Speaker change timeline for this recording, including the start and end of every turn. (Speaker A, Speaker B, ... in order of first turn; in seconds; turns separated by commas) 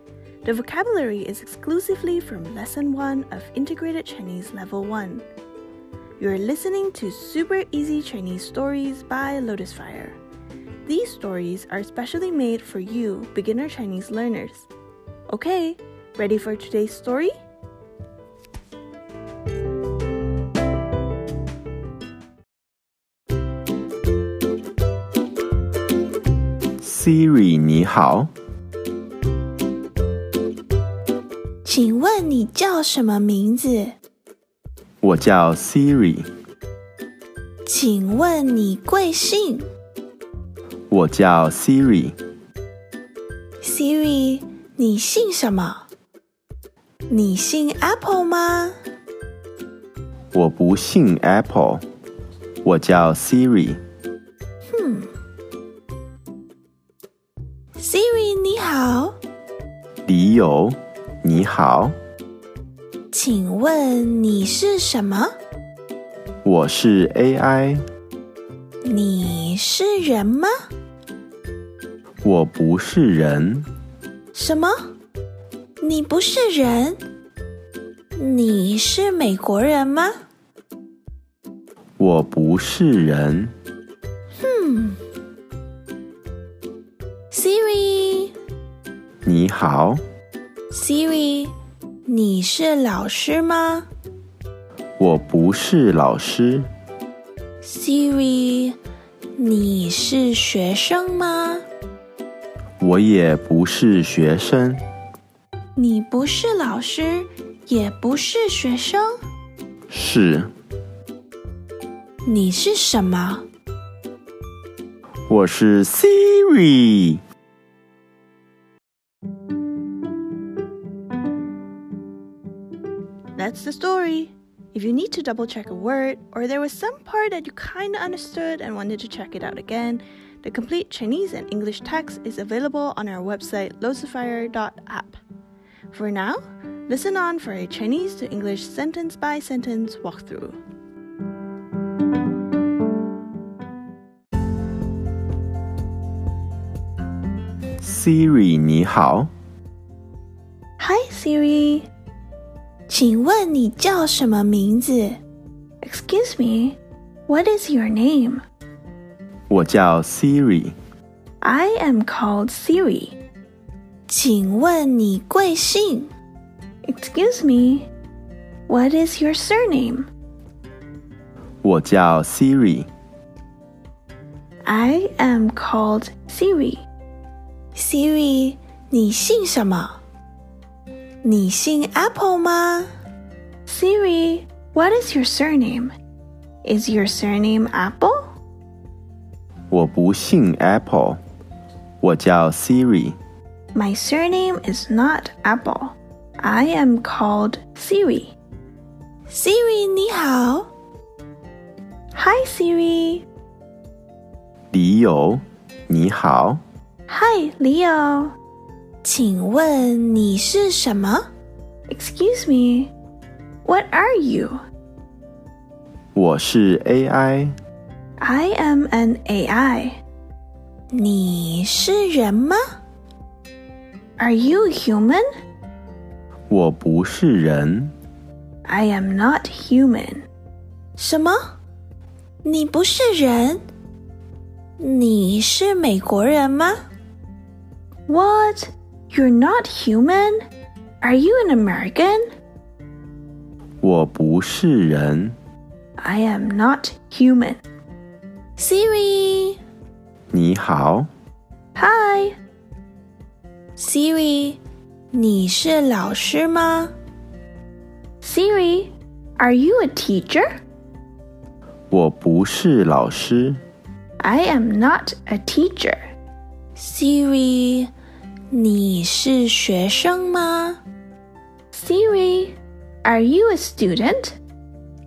Speaker A: 0.4-5.2, Speaker A: 6.2-10.2, Speaker A: 10.8-14.7, Speaker A: 15.3-17.4, Speaker B: 26.8-28.3, Speaker A: 31.6-33.9, Speaker B: 35.0-36.3, Speaker A: 37.6-39.6, Speaker B: 40.9-42.1, Speaker A: 43.6-45.9, Speaker A: 47.1-48.7, Speaker B: 50.3-51.8, Speaker B: 52.6-53.8, Speaker A: 54.7-55.1, Speaker A: 57.8-59.2, Speaker B: 60.0-61.9, Speaker A: 63.1-65.3, Speaker B: 66.4-67.8, Speaker A: 68.8-70.6, Speaker B: 72.2-73.7, Speaker A: 74.3-74.9, Speaker A: 75.8-77.0, Speaker A: 78.2-80.2, Speaker B: 82.0-83.5, Speaker A: 84.4-85.0, Speaker A: 87.3-88.3, Speaker B: 89.2-90.0, Speaker A: 90.7-91.5, Speaker A: 92.1-93.9, Speaker B: 95.0-96.7, Speaker A: 97.6-98.8, Speaker A: 99.4-101.6, Speaker B: 102.8-104.8, Speaker A: 105.8-109.2, Speaker B: 109.9-110.5, Speaker A: 112.2-113.4, Speaker B: 115.3-117.2, Speaker A: 123.3-135.2, Speaker A: 135.9-140.6, Speaker B: 147.8-149.3, Speaker A: 150.8-151.9, Speaker A: 152.9-155.2, Speaker A: 155.8-158.4, Speaker B: 159.5-160.7, Speaker A: 161.4-163.2, Speaker A: 164.1-166.1, Speaker A: 166.8-167.9, Speaker A: 168.7-170.1, Speaker B: 171.6-172.9, Speaker A: 174.6-176.8, Speaker A: 177.7-180.0, Speaker A: 181.2-182.9, Speaker A: 183.7-185.9, Speaker A: 186.6-188.3, Speaker B: 189.7-191.2, Speaker B: 192.0-193.2, Speaker A: 193.7-198.3, Speaker A: 199.3-200.7, Speaker A: 202.1-203.2, Speaker B: 204.7-206.6, Speaker A: 207.1-208.3, Speaker A: 209.0-211.3, Speaker A: 211.9-212.9, Speaker A: 213.6-214.6, Speaker B: 216.1-217.5, Speaker A: 218.2-220.0, Speaker A: 220.9-222.6, Speaker A: 224.2-225.2, Speaker B: 226.5-227.9, Speaker A: 228.7-230.2, Speaker A: 231.0-231.5, Speaker A: 232.4-233.6, Speaker A: 234.8-236.8, Speaker A: 238.1-240.4, Speaker A: 241.0-242.2, Speaker B: 243.8-245.3, Speaker A: 246.0-247.6, Speaker A: 248.6-249.6, Speaker B: 250.3-251.1, Speaker A: 251.8-252.3, Speaker A: 253.8-254.6, Speaker A: 255.1-256.9, Speaker A: 258.2-260.5, Speaker B: 261.9-263.6, Speaker A: 264.2-266.0, Speaker A: 266.8-267.9, Speaker A: 268.5-270.8, Speaker A: 271.7-274.4